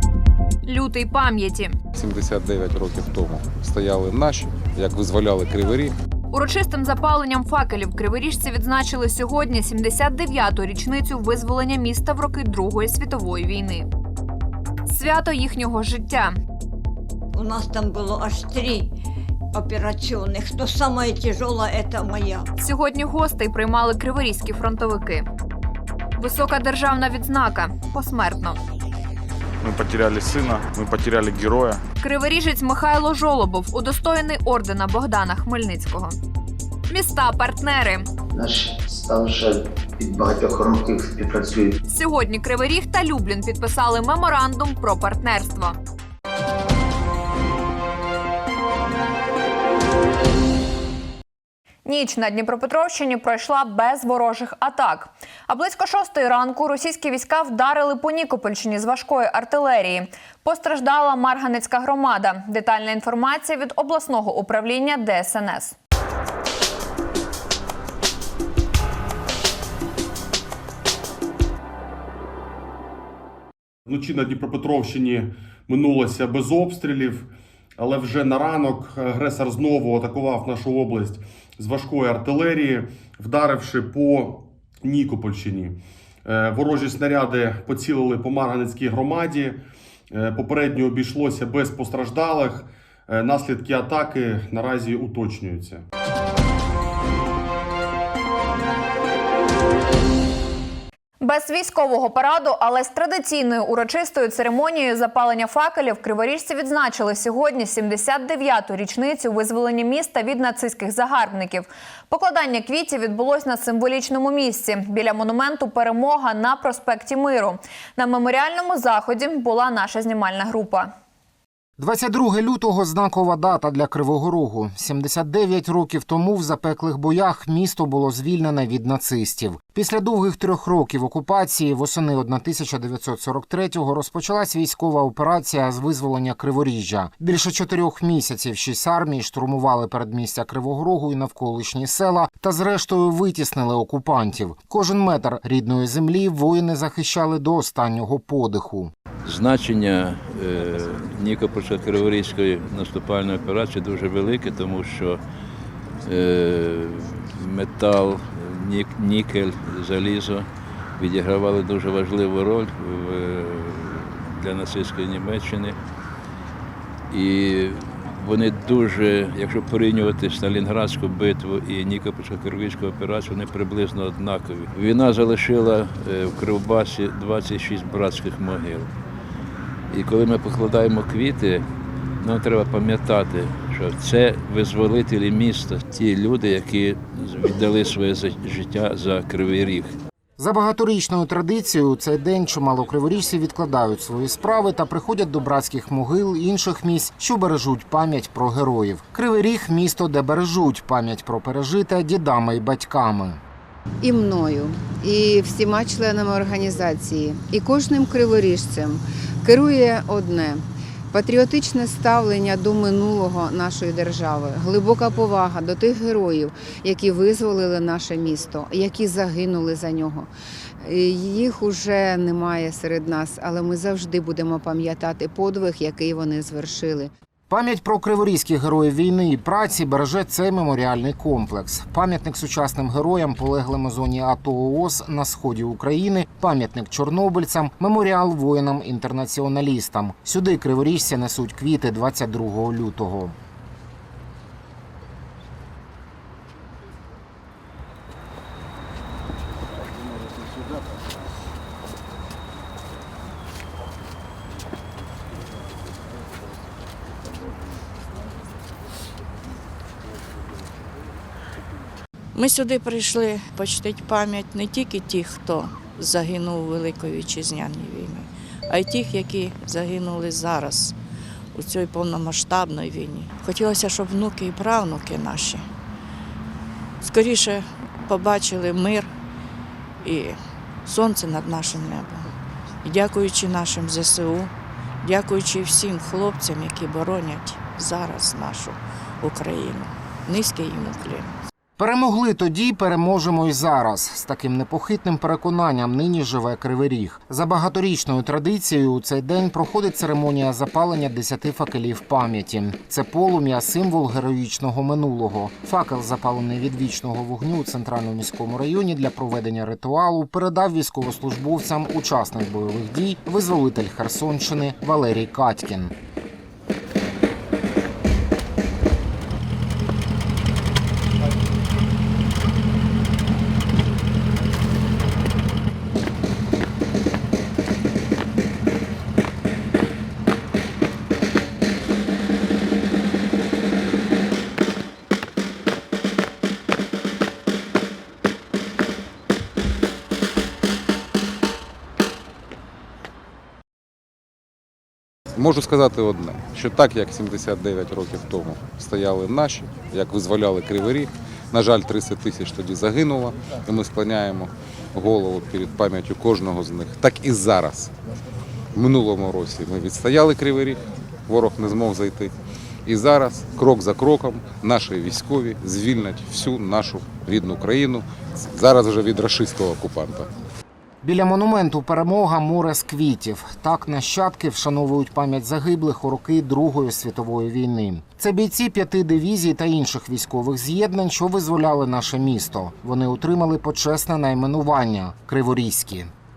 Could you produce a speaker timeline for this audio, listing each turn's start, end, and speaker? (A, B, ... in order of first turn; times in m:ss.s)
0:00.6-0:01.8 A
0:01.9-0:05.9 B
0:06.3-0:13.9 A
0:14.9-0:16.4 A
0:17.3-0:18.9 C
0:19.5-0:22.5 C
0:22.6-0:25.2 A
0:26.2-0:28.6 A
0:29.6-0:31.8 D
0:32.0-0:36.1 A
0:36.9-0:38.0 A
0:38.3-0:41.7 E
0:41.9-0:45.8 A
0:51.8-1:05.8 A
1:13.9-1:35.8 F
1:41.2-2:00.9 A
2:01.8-2:28.9 G
2:29.2-2:35.2 H
2:36.0-2:45.8 H
2:47.1-2:58.9 H
2:59.9-3:01.7 H
3:02.2-3:10.0 H
3:10.4-3:23.4 G
3:24.0-3:47.1 I
3:47.5-4:03.4 G
4:22.3-4:30.9 J
4:31.5-4:35.7 J
4:37.0-4:39.1 J
4:40.0-4:42.3 J
4:42.8-4:51.3 J
4:51.8-5:15.9 G
5:45.4-5:57.9 B
5:58.7-6:02.3 B
6:02.8-6:10.3 B
6:11.0-6:26.1 G